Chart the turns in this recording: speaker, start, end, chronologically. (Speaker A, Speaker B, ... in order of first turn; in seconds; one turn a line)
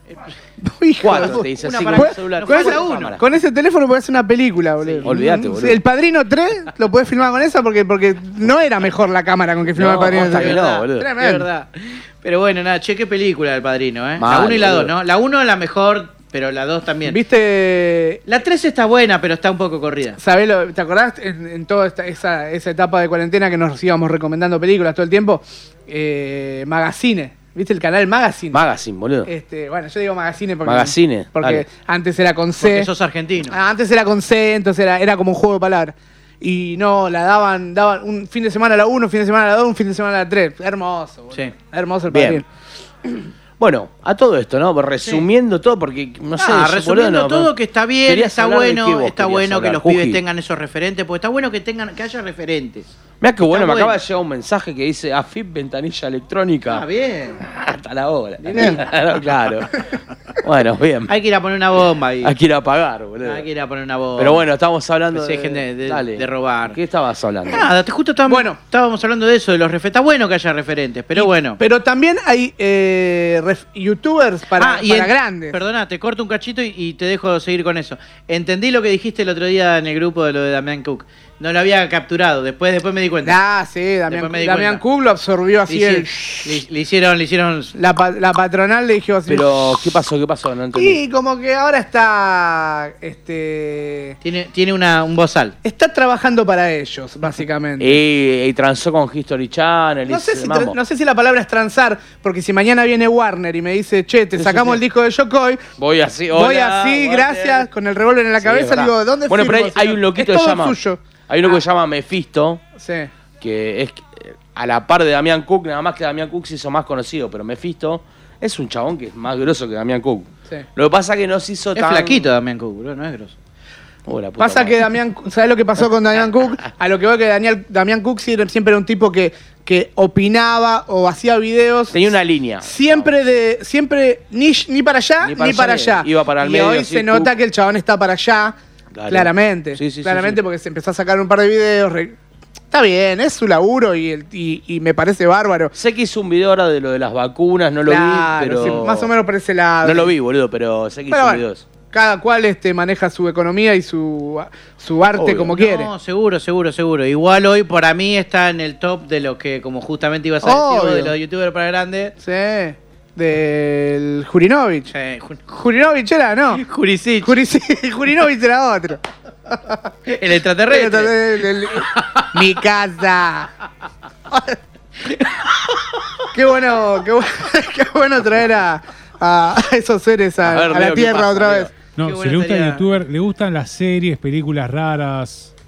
Speaker A: 0.6-11.5
Speaker B: 1.0-3.3
Speaker C: 1.1-3.2
Speaker C: 4.8-5.1
Speaker B: 5.0-5.8
Speaker B: 9.8-11.1
Speaker C: 10.1-17.2
Speaker B: 14.2-14.9
Speaker A: 17.1-18.2
Speaker C: 18.3-20.2
Speaker A: 20.2-28.6
Speaker B: 28.5-29.3
Speaker A: 29.2-32.9
Speaker B: 30.6-31.6
Speaker C: 32.6-33.6
Speaker A: 33.5-42.5
Speaker B: 42.1-42.4
Speaker B: 43.6-47.5
Speaker C: 46.4-52.9
Speaker B: 48.1-50.2
Speaker B: 53.2-56.8
Speaker C: 53.5-54.0
Speaker C: 56.7-57.4
Speaker B: 57.5-59.9
Speaker A: 58.5-58.8
Speaker B: 60.4-61.1
Speaker C: 61.1-62.4
Speaker B: 62.2-63.5
Speaker C: 63.2-64.4
Speaker B: 64.2-67.7
Speaker C: 65.1-66.8
Speaker C: 67.5-71.6
Speaker A: 68.3-68.6
Speaker A: 71.2-75.6
Speaker C: 74.6-83.4
Speaker A: 83.2-86.6
Speaker C: 84.1-84.8
Speaker C: 85.7-87.7
Speaker A: 87.7-89.8
Speaker B: 89.3-91.0
Speaker A: 90.7-94.2
Speaker C: 94.2-95.5
Speaker A: 95.6-98.0
Speaker B: 97.8-100.8
Speaker A: 100.1-105.6
Speaker B: 104.4-104.8
Speaker B: 105.8-107.7
Speaker A: 106.3-111.6
Speaker B: 108.4-112.6
Speaker A: 112.8-113.1
Speaker B: 113.4-122.3
Speaker C: 121.8-123.4
Speaker B: 124.1-124.8
Speaker A: 124.4-132.0
Speaker B: 131.9-133.1
Speaker A: 132.7-138.6
Speaker B: 135.2-137.3
Speaker B: 138.9-140.4
Speaker A: 139.1-142.2
Speaker A: 142.7-145.7
Speaker B: 145.7-149.1
Speaker A: 147.8-150.1
Speaker B: 149.8-151.7
Speaker A: 151.1-155.9
Speaker B: 155.2-155.6
Speaker C: 155.6-162.1
Speaker A: 160.4-161.1
Speaker A: 162.2-164.9
Speaker C: 164.9-165.5
Speaker A: 165.5-166.6
Speaker C: 166.5-167.3
Speaker A: 167.2-169.8
Speaker C: 170.1-172.3
Speaker A: 170.7-173.5
Speaker A: 174.3-174.6
Speaker A: 176.3-181.7
Speaker B: 180.4-181.7
Speaker D: 181.9-185.5
Speaker C: 182.0-182.8